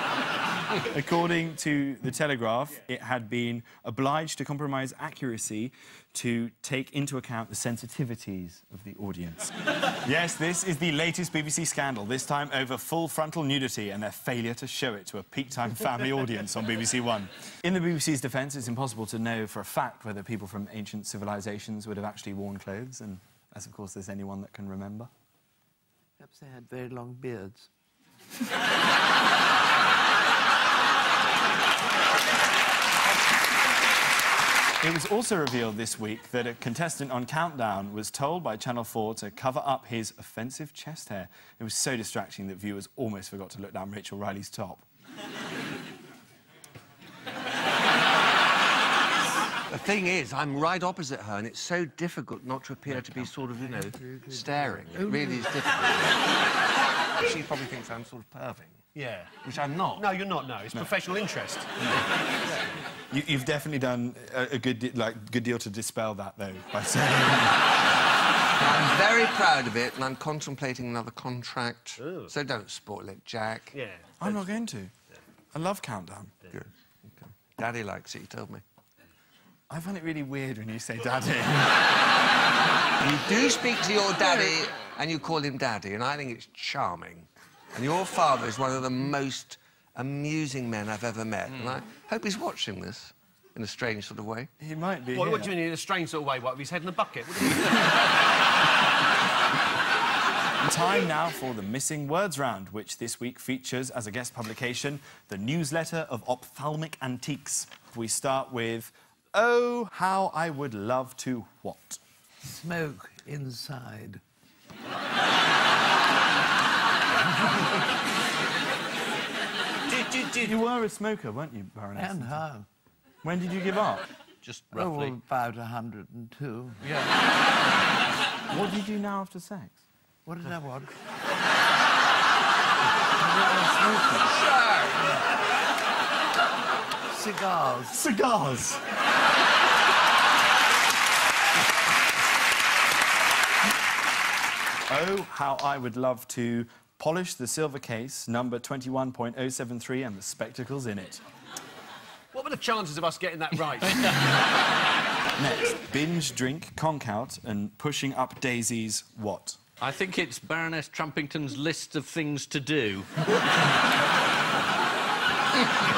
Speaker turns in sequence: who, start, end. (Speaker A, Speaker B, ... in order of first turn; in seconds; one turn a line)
Speaker A: 0.8-9.5
Speaker A: 10.0-25.1
Speaker B: 26.2-27.7
Speaker A: 34.8-44.9
Speaker C: 49.7-56.3
Speaker B: 54.0-55.5
Speaker C: 57.2-58.8
Speaker D: 59.0-59.4
Speaker C: 59.4-60.1
Speaker D: 59.9-62.0
Speaker A: 63.1-67.7
Speaker C: 68.6-73.8
Speaker D: 72.0-72.3
Speaker D: 73.7-74.4
Speaker A: 74.2-74.9
Speaker A: 75.5-76.5
Speaker C: 76.5-78.6
Speaker A: 79.7-82.0
Speaker C: 83.0-94.5
Speaker A: 94.6-95.5
Speaker D: 95.1-98.1
Speaker A: 100.6-112.0
Speaker B: 112.4-114.2
Speaker E: 119.9-120.3
Speaker A: 120.4-122.4
Speaker B: 122.0-122.7
Speaker A: 123.2-124.0
Speaker E: 124.4-125.1
Speaker B: 124.7-126.8
Speaker E: 126.8-127.1
Speaker A: 128.5-129.8
Speaker B: 130.3-130.9
Speaker A: 133.2-134.3
Speaker C: 134.2-135.1
Speaker B: 137.1-138.0
Speaker A: 137.9-138.8
Speaker A: 144.9-151.2
Speaker D: 152.3-154.2
Speaker A: 155.4-159.6
Speaker E: 159.8-163.1